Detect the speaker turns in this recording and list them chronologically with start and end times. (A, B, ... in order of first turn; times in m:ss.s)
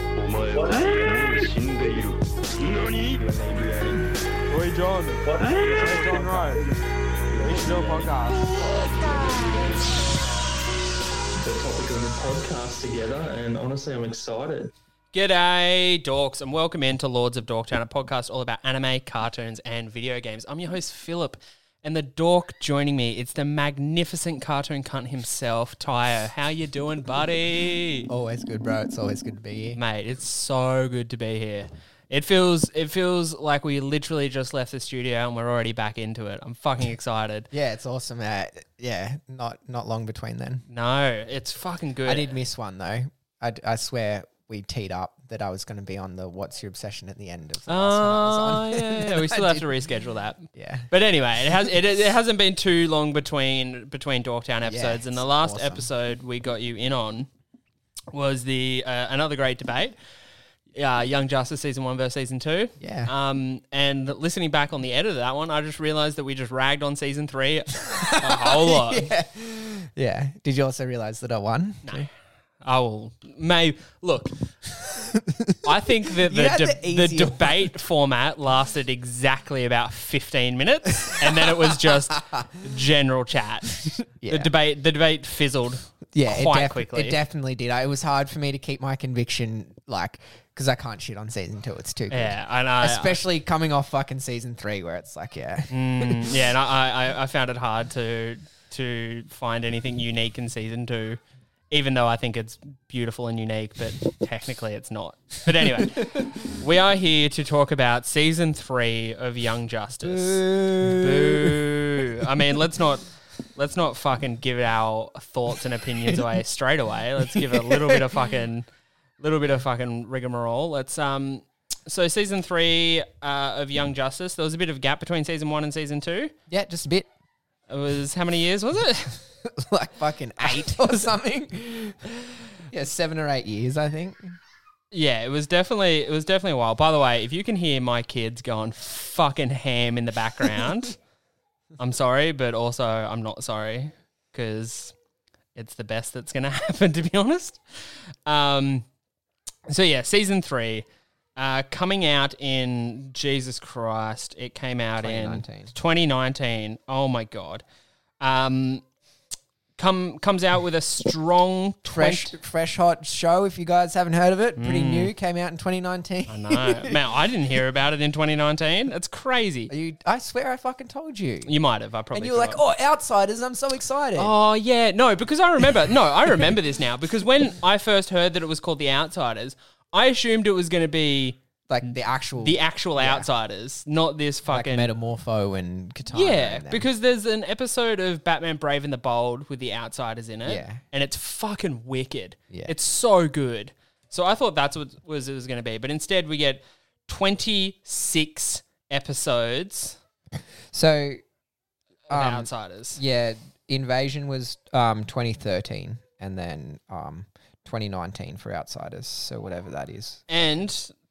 0:00.2-0:03.2 A
0:00.6-0:01.0 B
0:03.1-0:04.1 B
0:04.5-0:06.7 C
0:05.3-0:06.7 B
0:07.3-0:10.0 B
0:07.4-0:08.5 C
0:11.4-0:14.7 B
0:15.1-0:28.1 D
0:28.1-0:29.8 E
0:29.7-0:37.5 D
0:37.5-0:40.6 E
0:40.7-0:42.4 D
0:42.0-0:49.7 E
0:47.7-0:57.3 D
0:50.5-0:50.9 E
0:51.4-0:51.7 E
0:54.6-0:55.9 E
0:58.1-0:59.9 D
1:00.7-1:09.1 D
1:02.8-1:03.1 E
1:07.8-1:12.1 E
1:12.6-1:14.4 D
1:14.7-1:17.6 E
1:15.6-1:27.2 D
1:21.0-1:22.4 E
1:23.8-1:24.5 E
1:26.1-1:36.4 E
1:32.1-1:33.2 D
1:35.7-1:58.7 D
1:45.8-1:46.5 E
1:50.0-1:51.6 E
1:57.3-1:58.1 E
1:59.2-2:06.3 D
2:06.5-2:07.1 E
2:07.7-2:09.2 D
2:09.4-2:14.4 E
2:10.5-2:10.9 D
2:14.9-2:21.0 D
2:21.8-2:24.9 D
2:25.5-2:27.6 D
2:28.2-2:28.8 D
2:29.7-2:37.6 D
2:35.0-2:35.7 E
2:38.2-2:38.8 D
2:39.8-2:42.3 D
2:41.8-2:47.0 E
2:44.6-2:45.1 D
2:46.3-2:49.7 D
2:49.7-2:51.5 E
2:51.4-2:52.6 D
2:52.1-2:54.3 E
2:54.2-3:01.4 D
3:01.7-3:03.3 E
3:02.4-3:04.9 D
3:04.5-3:06.8 E
3:06.1-3:20.0 D
3:10.4-3:10.8 E
3:20.7-3:21.2 E
3:22.1-3:23.0 D
3:22.1-3:30.3 E
3:30.3-3:30.9 D